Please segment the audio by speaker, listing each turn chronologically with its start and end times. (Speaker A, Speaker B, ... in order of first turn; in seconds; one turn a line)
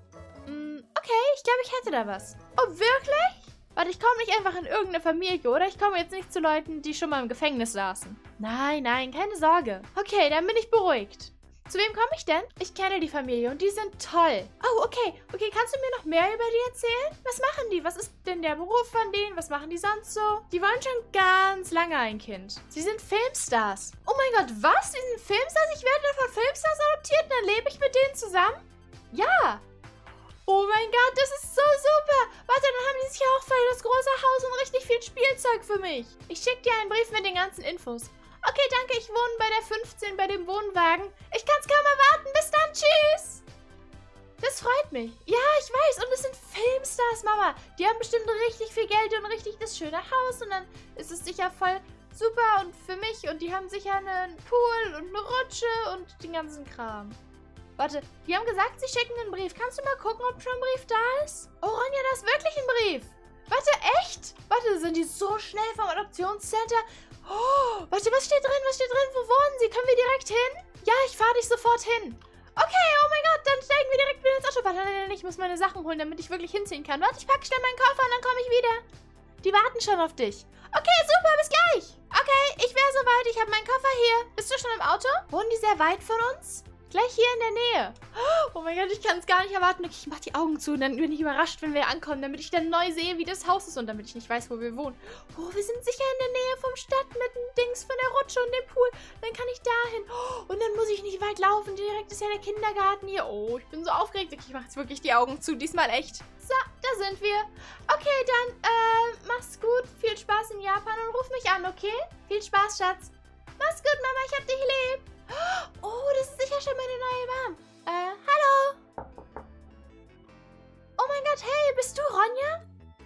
Speaker A: 0.5-29.6
Speaker A: 30.5-43.4
Speaker A: 44.4-57.2
Speaker A: 57.8-78.8
Speaker A: 79.4-118.8
Speaker A: 121.0-122.7